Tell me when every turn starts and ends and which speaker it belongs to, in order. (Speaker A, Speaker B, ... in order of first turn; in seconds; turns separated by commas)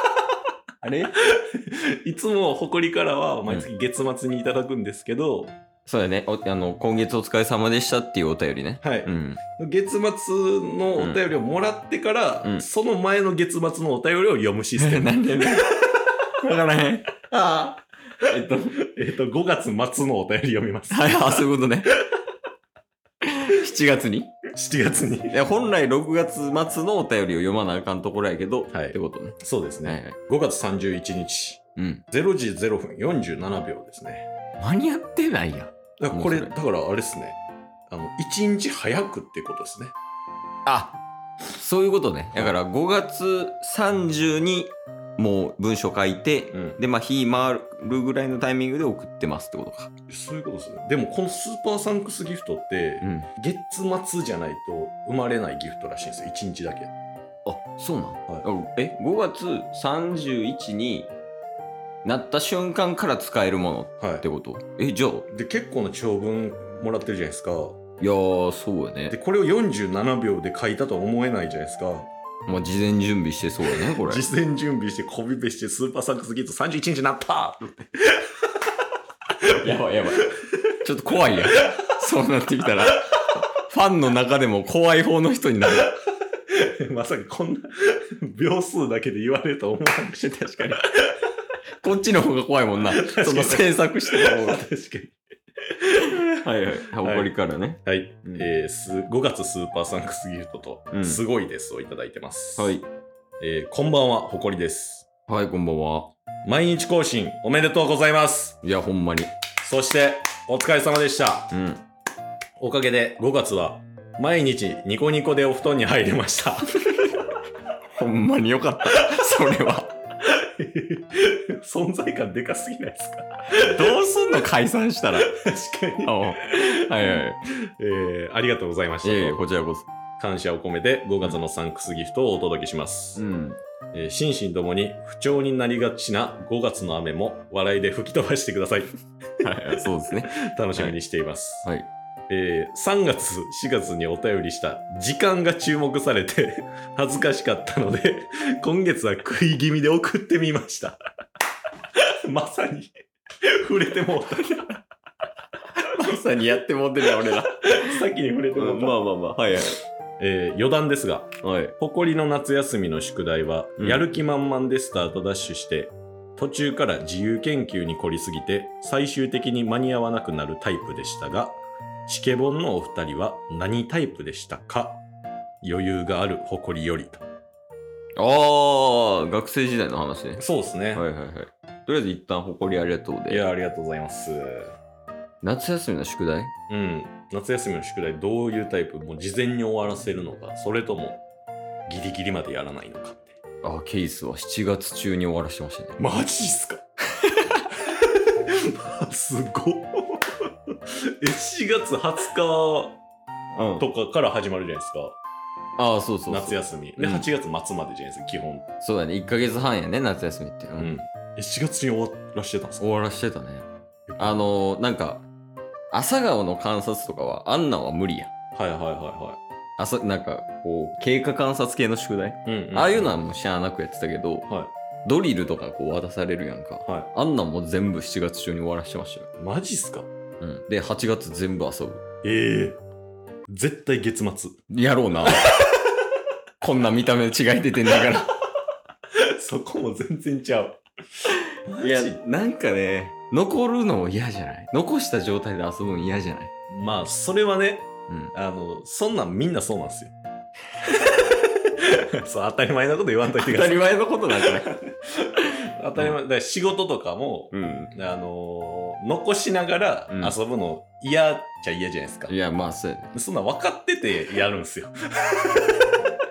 Speaker A: 0.8-1.1, Speaker B: 1.3-5.5, Speaker A: 5.9-9.4, Speaker B: 8.8-15.6, Speaker A: 10.9-11.2, Speaker A: 14.8-15.8, Speaker A: 16.3-18.8, Speaker B: 18.8-21.5, Speaker A: 20.9-21.9, Speaker A: 23.2-24.3, Speaker B: 24.5-25.4, Speaker A: 25.3-30.2, Speaker B: 28.7-34.3, Speaker A: 31.8-32.0, Speaker A: 34.6-36.5, Speaker B: 36.0-37.4, Speaker B: 37.9-39.9, Speaker A: 40.6-49.9, Speaker B: 46.5-46.8, Speaker B: 50.1-56.9, Speaker A: 53.0-53.3, Speaker A: 57.5-61.1, Speaker A: 62.0-65.3, Speaker B: 64.0-64.2, Speaker B: 65.3-67.8, Speaker A: 68.0-69.2, Speaker B: 69.1-72.1, Speaker A: 72.5-74.3, Speaker B: 73.7-78.4, Speaker A: 79.6-83.0, Speaker B: 81.6-81.9, Speaker A: 83.7-85.9, Speaker B: 85.8-91.1, Speaker A: 90.2-90.8, Speaker A: 91.8-94.6, Speaker B: 92.9-95.2, Speaker B: 95.7-96.2, Speaker A: 96.4-98.5, Speaker B: 97.0-102.8, Speaker A: 100.9-101.2, Speaker A: 102.6-102.9, Speaker B: 103.4-105.1, Speaker A: 105.3-106.1, Speaker B: 106.4-108.6, Speaker A: 108.6-109.3, Speaker B: 109.6-111.5, Speaker A: 111.5-111.8, Speaker B: 112.6-116.9, Speaker A: 118.0-119.9, Speaker B: 120.2-123.8, Speaker A: 123.5-125.3, Speaker B: 125.3-127.2, Speaker A: 126.0-127.4, Speaker B: 127.8-129.4, Speaker A: 129.0-129.9, Speaker B: 130.2-133.2, Speaker A: 133.2-133.6, Speaker B: 133.9-141.7, Speaker A: 139.4-141.0, Speaker B: 142.3-151.0, Speaker B: 152.0-154.8, Speaker A: 155.9-159.8, Speaker B: 157.0-159.1, Speaker B: 160.2-175.0, Speaker A: 161.4-161.7, Speaker A: 163.8-164.1, Speaker B: 175.6-177.2, Speaker A: 178.2-183.4, Speaker B: 180.4-181.1, Speaker B: 183.3-184.8, Speaker A: 185.4-186.5, Speaker B: 186.7-191.2, Speaker B: 191.9-193.4, Speaker A: 193.6-196.0, Speaker B: 196.0-196.8, Speaker B: 198.0-203.0, Speaker A: 203.6-203.9, Speaker B: 203.8-205.2, Speaker A: 205.8-207.3, Speaker B: 206.3-208.7, Speaker A: 208.8-210.9, Speaker B: 210.8-212.8, Speaker A: 212.8-213.7, Speaker B: 214.1-214.5, Speaker A: 214.2-215.3, Speaker A: 215.9-218.3, Speaker B: 218.6-219.4, Speaker A: 219.8-224.5, Speaker B: 222.4-223.1, Speaker B: 224.5-224.7, Speaker A: 225.1-229.3, Speaker B: 226.8-227.1, Speaker B: 229.4-230.1, Speaker A: 230.4-232.0, Speaker B: 232.2-232.8, Speaker B: 233.5-234.6, Speaker A: 234.7-235.7, Speaker A: 236.6-238.3, Speaker B: 239.2-240.8, Speaker B: 241.7-242.2, Speaker A: 241.8-246.5, Speaker B: 246.7-250.1, Speaker B: 250.8-262.3, Speaker A: 253.3-254.8, Speaker A: 257.5-257.9, Speaker A: 260.1-260.4, Speaker A: 262.3-263.1, Speaker B: 263.1-265.7